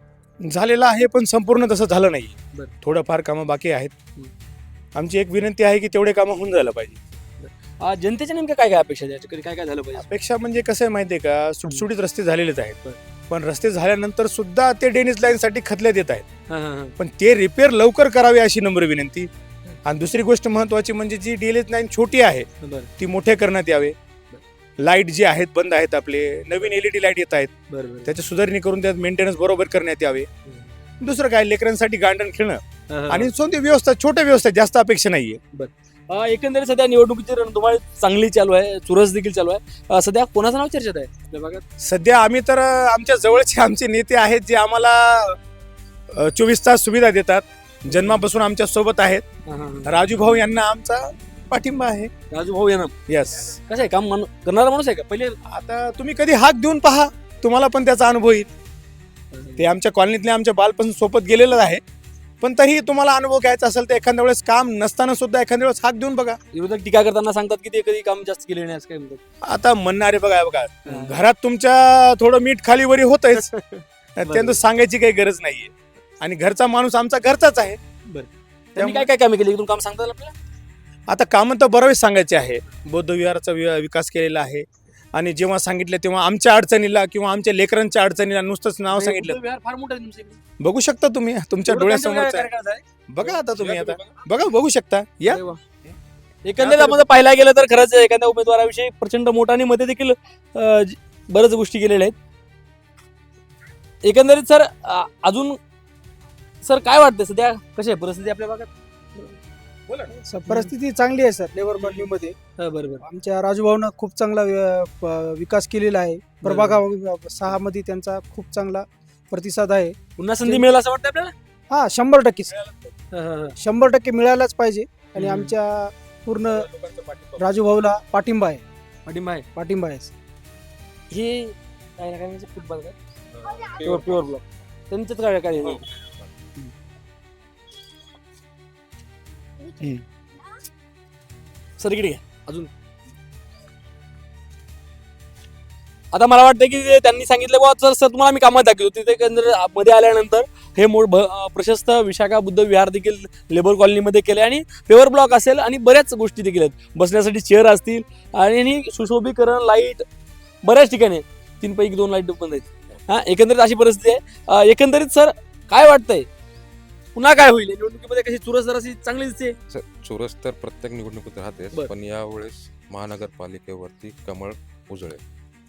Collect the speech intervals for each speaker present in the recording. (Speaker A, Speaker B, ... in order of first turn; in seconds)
Speaker A: 0.4-3.9, 5.0-7.0, 10.0-12.8, 13.3-16.2, 17.0-19.3, 19.9-23.9, 24.8-27.5, 28.1-30.3, 31.0-35.4, 41.8-45.4, 46.1-49.2, 49.9-52.1, 53.1-53.6, 55.5-58.5, 59.6-61.8, 62.4-66.4, 69.4-73.5, 74.2-77.8, 78.8-79.1, 81.1-89.4, 90.6-92.5, 93.1-95.4, 96.6-97.0
Speaker B: 7.4-10.1, 16.5-16.9, 22.6-22.9, 27.7-28.1, 30.5-30.7, 32.9-33.3, 35.5-41.6, 47.9-48.2, 49.5-50.0, 52.3-52.9, 53.5-55.4, 59.3-59.7, 66.5-69.2, 70.9-71.2, 73.4-74.6, 78.1-80.3, 88.9-90.4, 91.7-94.2, 95.3-95.6, 96.4-102.2, 104.0-105.6, 106.6-109.3, 110.5-110.7, 111.8-112.0, 112.6-113.0, 116.4-116.8, 120.2-121.3, 123.1-123.6, 125.2-125.5, 129.1-129.5, 131.1-133.0, 133.7-135.9, 141.8-142.7, 146.1-160.0, 160.6-166.3, 167.2-169.6
Speaker C: 110.1-112.4, 113.0-120.6, 121.7-122.6, 123.6-126.7, 127.4-128.6, 129.6-130.1
Speaker D: 133.3-134.1, 169.7-175.2